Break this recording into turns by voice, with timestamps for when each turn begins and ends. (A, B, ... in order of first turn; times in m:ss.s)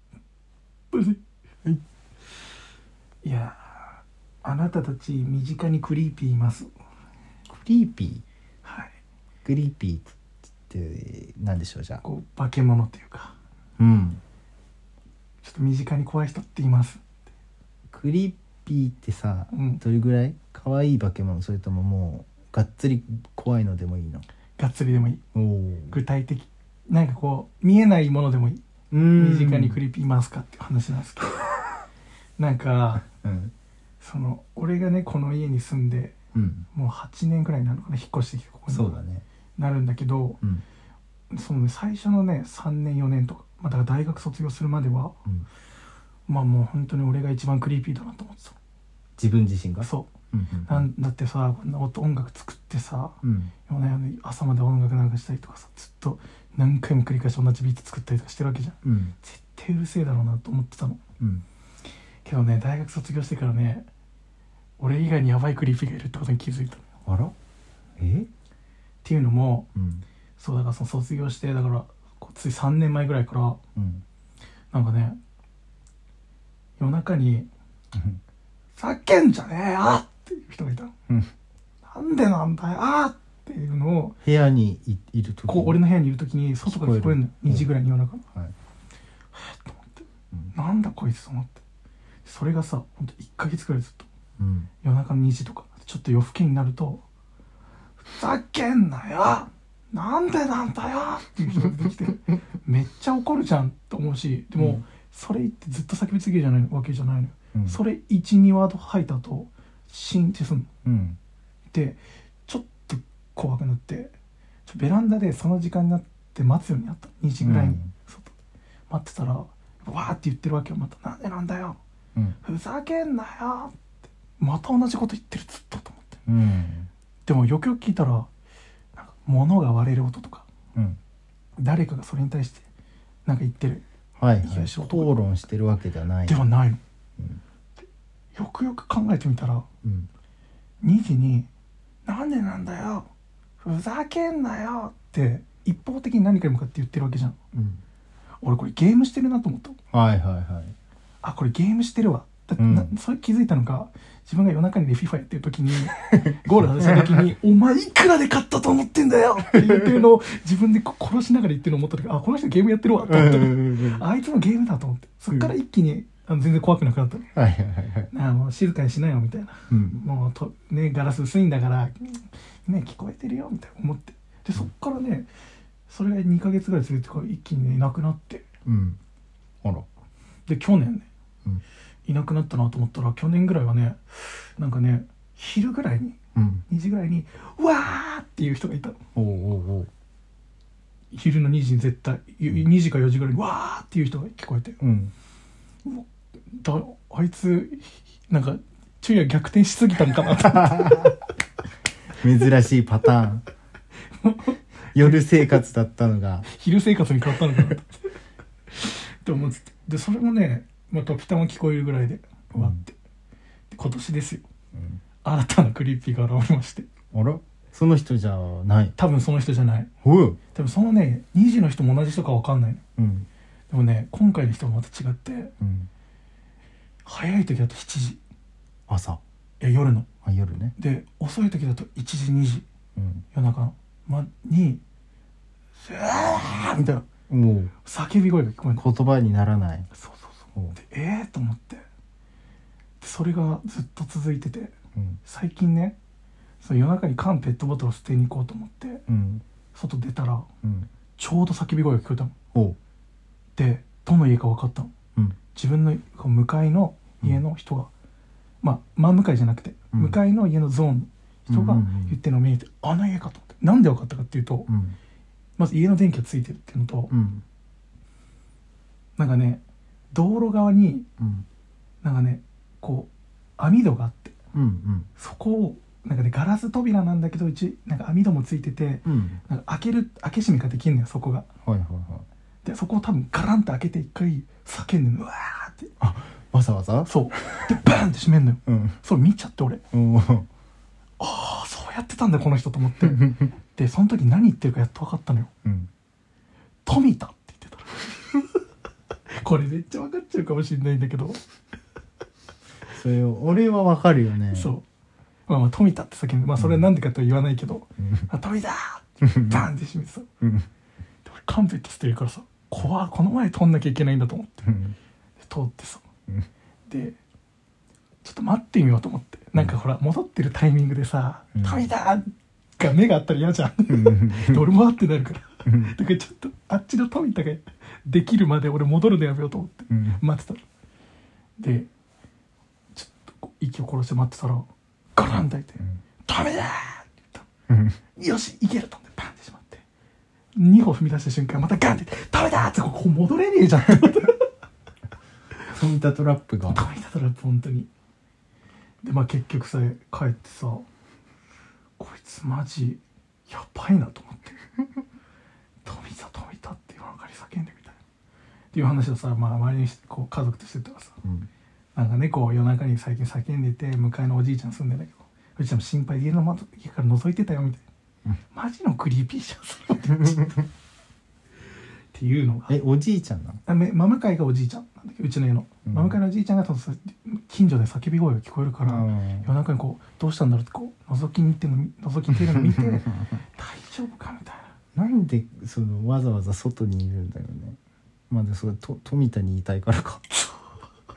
0:00.9-0:01.2 A
0:03.2-0:06.7 A
0:07.5-0:08.2 B
0:08.6-0:08.9 A
0:09.4-0:10.1 B
0:10.7-0:12.0 B
0:12.0-0:13.3 A
0:13.8-0:14.2 B
0:15.4-0:17.0 A
0:17.9-0:24.2 B
0:19.5-0:19.8 A
0:24.6-0:25.2 A
0:25.3-0:26.0 B
0:25.9-0:31.5 A
0:28.9-0:29.8 B
0:32.4-0:33.0 A
0:33.0-0:33.5 B
0:34.0-0:36.1 A
0:36.3-0:36.7 B
0:36.7-0:39.0 A
0:38.7-0:39.2 B
0:39.6-0:40.4 A
0:41.3-0:45.1 A
0:46.3-0:48.6 A
0:49.2-0:50.9 B
0:49.8-0:50.1 A
0:50.7-1:01.0 A
0:53.2-0:53.5 B
0:58.8-0:59.1 B
1:01.2-1:01.4 B
1:02.2-1:03.9 A
1:04.8-1:06.8 A
1:07.0-1:07.3 B
1:08.0-1:08.3 B
1:09.0-1:09.7 A
1:09.7-1:10.0 B
1:10.4-1:13.6 A
1:13.8-1:14.0 B
1:14.7-1:15.2 A
1:16.8-1:17.5 A
1:17.9-1:18.2 B
1:18.8-1:20.9 A
1:21.8-1:24.2 A
1:24.2-1:25.8 B
1:25.5-1:28.2 A
1:26.6-1:27.7 B
1:29.3-1:31.6 A
1:32.2-1:34.1 A
1:34.4-1:34.7 B
1:34.8-1:37.0 A
1:38.0-1:50.7 A
1:44.6-1:44.8 B
1:47.5-1:47.8 B
1:50.8-1:51.2 B
1:51.7-1:54.1 A
1:54.7-1:58.3 A
1:57.4-1:57.9 B
1:58.9-2:01.8 A
2:02.4-2:03.8 A
2:04.4-2:06.2 A
2:06.3-2:06.9 B
2:07.2-2:08.3 A
2:09.0-2:10.4 A
2:11.6-2:12.6 A
2:13.2-2:13.8 A
2:14.2-2:16.4 B
2:14.4-2:15.2 A
2:16.2-2:16.8 A
2:18.3-2:19.7 A
2:19.8-2:20.1 B
2:20.8-2:21.5 A
2:22.0-2:23.1 A
2:23.6-2:27.4 A
2:27.5-2:27.8 B
2:28.4-2:29.8 A
2:29.9-2:30.7 B
2:31.2-2:47.3 A
2:32.6-2:32.9 B
2:36.1-2:37.2 B
2:39.5-2:40.0 B
2:43.0-2:44.0 B
2:47.3-2:48.1 B
2:48.1-2:55.3 A
2:49.7-2:50.0 B
2:55.9-2:58.5 A
2:58.6-2:59.0 B
3:00.5-3:01.1 A
3:02.0-3:06.2 A
3:06.3-3:06.6 B
3:06.7-3:09.0 A
3:09.1-3:09.9 B
3:11.1-3:14.8 A
3:14.8-3:15.1 B
3:15.8-3:21.2 A
3:20.4-3:21.2 B
3:22.2-3:23.4 B
3:24.2-3:25.5 A
3:24.9-3:26.5 B
3:26.5-3:28.1 A
3:28.7-3:32.9 A
3:32.5-3:32.8 B
3:33.7-3:34.4 A
3:34.7-3:35.0 B
3:35.2-3:36.9 A
3:37.1-3:38.9 B
3:39.0-3:39.9 A
3:40.0-3:40.4 B
3:40.5-3:42.8 A
3:43.0-3:43.3 B
3:43.7-3:45.5 A
3:45.6-3:45.9 B
3:47.0-3:48.2 A
3:48.9-3:49.2 B
3:49.6-3:50.1 A
3:50.2-3:50.7 B
3:50.8-3:52.6 A
3:53.0-3:53.2 B
3:53.3-3:54.8 A
3:55.8-3:57.0 A
3:57.3-3:57.7 B
3:57.8-3:58.8 A
3:58.8-3:59.9 B
4:00.0-4:01.8 A
4:03.0-4:04.7 A
4:04.9-4:05.2 B
4:05.2-4:06.0 A
4:06.6-4:09.0 A
4:09.1-4:09.4 B
4:09.7-4:10.5 A
4:10.6-4:10.9 B
4:11.2-4:12.3 A
4:13.6-4:14.9 A
4:15.5-4:17.9 A
4:18.6-4:24.7 A
4:21.5-4:22.2 B
4:24.7-4:25.0 B
4:25.6-4:27.1 A
4:27.1-4:27.4 B
4:29.2-4:31.0 A
4:31.2-4:31.4 B
4:32.0-4:34.3 A
4:34.5-4:35.1 B
4:35.2-4:41.4 A
4:39.0-4:39.4 B
4:41.6-4:42.3 B
4:42.6-4:45.9 A
4:46.0-4:47.7 B
4:47.1-4:49.8 A
4:48.7-4:49.0 B
4:49.9-4:50.5 B
4:51.2-4:55.5 A
4:53.0-4:53.4 B
4:55.6-4:55.9 B
4:56.8-4:58.6 A
4:59.3-5:01.4 A
5:02.9-5:04.7 B
5:04.5-5:04.8 A
5:05.5-5:10.3 A
5:06.6-5:06.8 B
5:08.0-5:08.3 B
5:09.2-5:09.6 B
5:10.4-5:10.7 B
5:11.2-5:14.8 A
5:14.6-5:15.0 B
5:15.4-5:16.0 A
5:16.9-5:17.2 A
5:18.2-5:30.6 A
5:21.5-5:21.9 B
5:23.9-5:24.6 B
5:25.6-5:25.9 B
5:29.9-5:30.2 B
5:31.6-5:31.9 A
5:32.9-5:37.4 A
5:37.7-5:38.0 B
5:38.2-5:39.8 A
5:40.5-5:44.5 A
5:45.7-5:46.8 B
5:46.7-5:47.9 A
5:49.0-5:50.9 A
5:52.0-5:54.6 A
5:55.8-5:58.0 A
5:58.7-6:01.2 A
6:01.2-6:01.5 B
6:01.9-6:07.8 A
6:08.5-6:10.6 A
6:12.1-6:12.7 A
6:12.7-6:13.6 B
6:13.6-6:24.7 A
6:15.9-6:16.2 B
6:18.8-6:19.5 B
6:22.3-6:22.9 B
6:24.9-6:27.8 B
6:28.3-6:30.2 B